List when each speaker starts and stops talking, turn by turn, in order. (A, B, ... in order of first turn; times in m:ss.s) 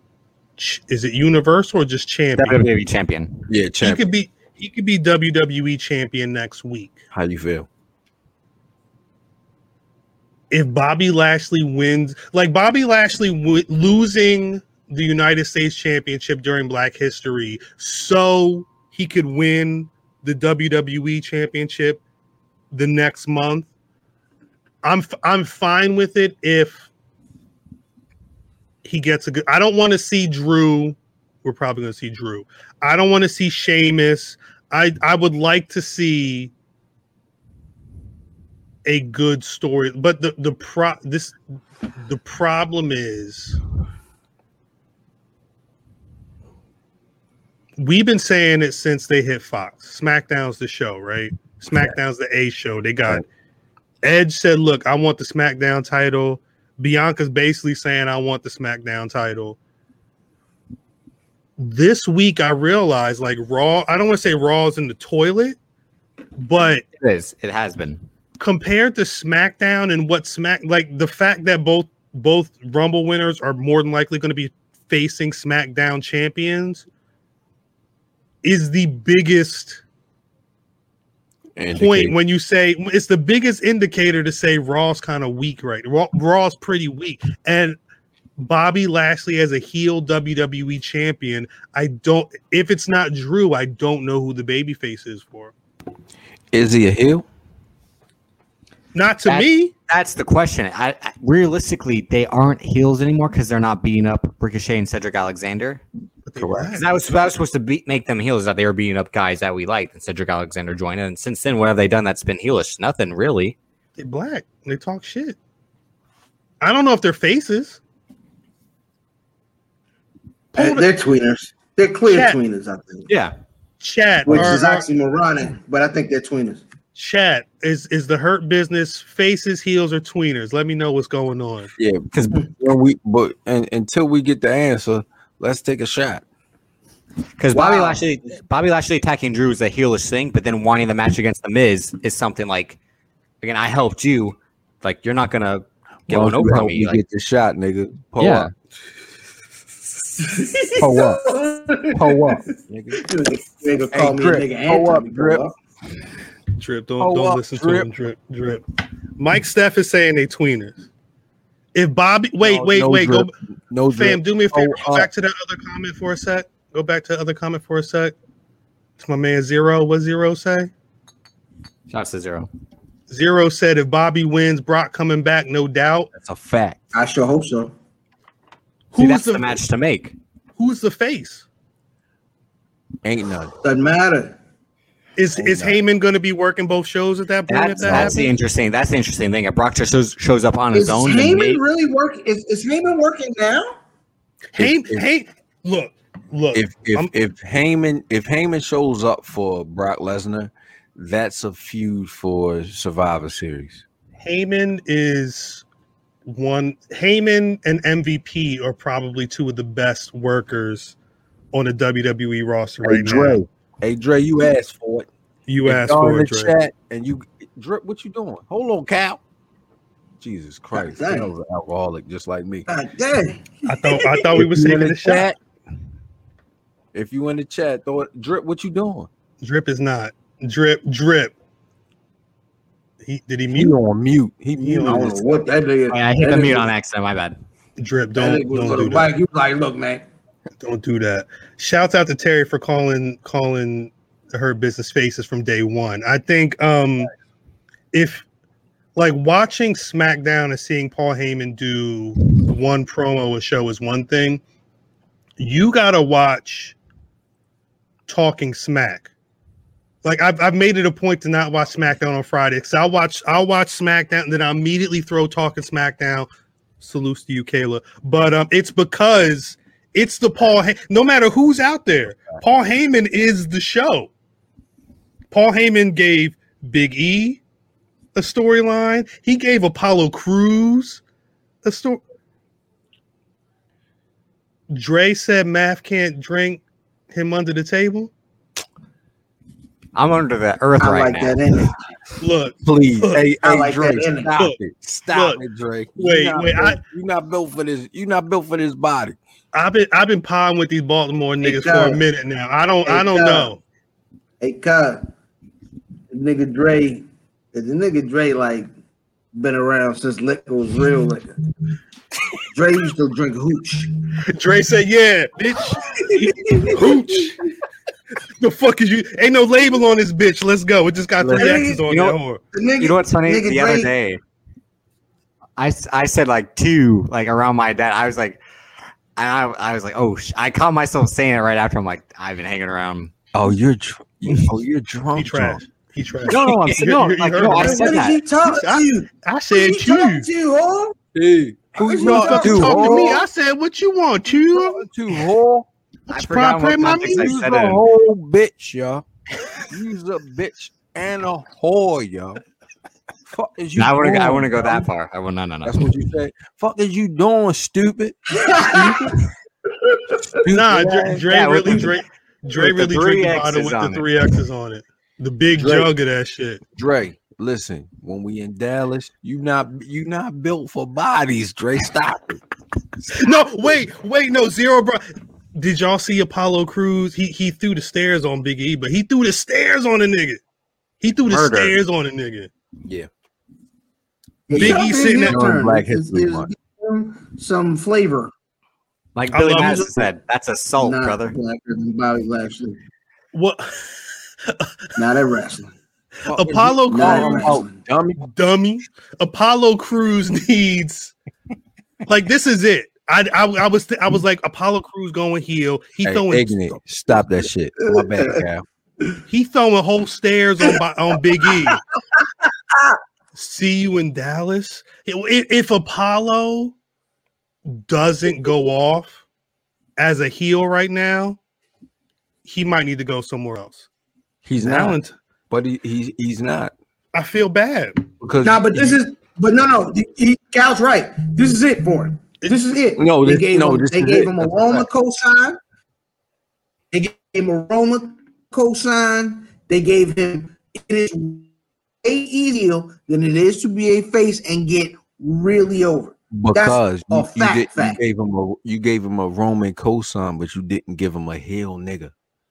0:00.6-0:02.6 A
0:02.4-0:03.4 B
0:03.5-0:04.1 C
0:03.8-0:07.0 A
0:07.1-0:07.7 C
0:10.5-0:22.0 A
0:22.7-0:23.7 A
0:24.8-0:26.9 A
0:28.8-0:36.5 A
0:38.8-0:41.4 A
0:42.0-0:43.6 A
0:47.8-0:53.2 A
0:54.0-0:59.6 A
1:01.6-1:05.6 A
1:06.4-1:06.8 A
1:07.0-1:08.0 B
1:08.4-1:16.8 A
1:18.4-1:19.8 A
1:21.6-1:22.1 C
1:21.7-1:27.8 A
1:28.4-1:35.5 A
1:36.5-1:37.2 C
1:38.9-1:39.7 A
1:39.2-1:45.8 B
1:46.2-1:46.8 A
1:46.4-1:46.8 C
1:46.7-1:53.6 B
1:54.0-1:55.4 A
1:56.6-1:57.8 A
2:00.5-2:00.9 A
2:00.5-2:03.1 D
2:02.1-2:02.4 A
2:03.8-2:04.9 A
2:04.2-2:06.6 D
2:04.3-2:04.6 C
2:07.0-2:11.7 A
2:11.8-2:16.2 C
2:12.1-2:12.4 B
2:17.4-2:22.8 B
2:17.5-2:18.0 D
2:23.4-2:27.0 B
2:26.1-2:28.5 C
2:28.2-2:28.5 B
2:30.2-2:32.4 D
2:30.8-2:31.2 B
2:31.9-2:32.4 B
2:32.1-2:33.0 C
2:32.9-2:35.5 D
2:33.9-2:35.4 C
2:36.6-2:38.6 A
2:37.0-2:37.9 C
2:39.2-2:40.8 A
2:41.7-2:43.3 A
2:42.4-2:45.1 C
2:43.9-2:48.2 A
2:49.0-2:50.7 A
2:51.9-2:52.5 B
2:53.1-2:56.1 A
2:56.1-2:56.9 C
2:56.9-2:57.7 D
2:58.9-2:59.6 A
2:59.0-3:00.1 B
3:00.6-3:01.4 A
3:03.0-3:03.5 C
3:03.6-3:04.4 D
3:05.2-3:08.3 A
3:05.3-3:05.8 C
3:07.5-3:11.6 B
3:07.8-3:08.1 C
3:10.7-3:13.7 D
3:14.5-3:17.1 A
3:14.6-3:15.0 C
3:16.5-3:23.8 C
3:24.2-3:25.6 A
3:26.2-3:31.0 A
3:31.5-3:33.4 A
3:32.8-3:35.1 C
3:35.5-3:36.5 A
3:35.6-3:39.2 C
3:40.2-3:42.7 C
3:40.7-3:41.3 D
3:42.7-3:44.4 D
3:43.6-3:45.3 A
3:44.3-3:45.4 C
3:46.9-3:49.1 C
3:49.4-3:51.3 A
3:53.0-3:53.8 A
3:53.5-3:55.5 C
3:54.7-3:56.7 D
3:55.9-3:57.3 B
3:57.8-3:59.1 A
3:58.2-4:00.0 D
4:00.6-4:07.1 A
4:07.9-4:08.2 A
4:09.0-4:14.4 A
4:15.4-4:16.8 A
4:18.1-4:19.1 A
4:20.0-4:26.3 A
4:26.8-4:34.1 A
4:35.3-4:37.4 A
4:38.1-4:41.0 A
4:41.6-4:42.0 A
4:44.7-4:48.1 A
4:50.0-4:51.4 B
4:50.8-4:51.8 D
4:52.2-4:53.3 A
4:52.6-4:59.2 C
4:53.4-4:54.3 D
4:55.1-4:55.4 A
4:56.0-4:56.8 A
4:59.5-5:03.6 A
5:01.4-5:02.0 D
5:02.8-5:03.5 D
5:04.4-5:05.1 D
5:06.1-5:08.7 D
5:09.3-5:11.3 D
5:12.5-5:14.0 D
5:14.3-5:17.4 A
5:15.8-5:17.4 D
5:18.4-5:22.4 A
5:21.2-5:21.6 C
5:21.3-5:21.8 D
5:21.8-5:22.2 B
5:22.5-5:23.9 D
5:22.8-5:24.2 B
5:25.6-5:28.4 B
5:29.2-5:33.1 B
5:33.3-5:35.6 C
5:35.1-5:40.3 A
5:36.3-5:38.2 B
5:37.4-5:40.9 D
5:41.1-5:43.2 C
5:41.8-5:43.2 D
5:41.8-5:44.9 A
5:44.4-5:45.7 C
5:46.1-5:47.8 B
5:46.1-5:47.3 A
5:46.9-5:49.0 C
5:49.7-5:52.4 C
5:53.3-5:54.9 C
5:53.8-5:55.8 B
5:55.6-5:59.2 C
5:58.3-5:59.1 D
6:00.4-6:01.9 C
6:00.5-6:06.6 A
6:01.3-6:01.9 B
6:02.5-6:04.1 B
6:05.5-6:05.9 C
6:06.7-6:12.4 C
6:13.1-6:15.0 A
6:15.5-6:20.4 A
6:21.0-6:22.5 A
6:21.3-6:21.7 B
6:24.5-6:28.3 D
6:24.5-6:25.5 A
6:24.5-6:26.5 C
6:29.2-6:31.3 B
6:29.3-6:29.9 A
6:29.5-6:29.9 D
6:30.8-6:32.8 D
6:33.3-6:33.7 A
6:35.0-6:35.7 D
6:36.2-6:38.2 C
6:36.3-6:37.6 A
6:36.9-6:37.7 D
6:38.2-6:41.1 A
6:42.1-6:46.8 A
6:46.0-6:48.6 C
6:48.0-6:48.4 D
6:49.3-6:51.8 A
6:51.4-6:51.7 D
6:53.3-6:56.7 A
6:57.7-6:59.2 A
7:00.0-7:01.4 A
7:02.4-7:03.8 A
7:04.4-7:05.0 C
7:04.6-7:05.1 A
7:05.5-7:06.7 C
7:07.1-7:08.0 A
7:08.2-7:09.0 C
7:08.4-7:15.6 D
7:13.0-7:14.9 C
7:16.9-7:21.5 D
7:22.0-7:28.0 D
7:26.3-7:32.1 C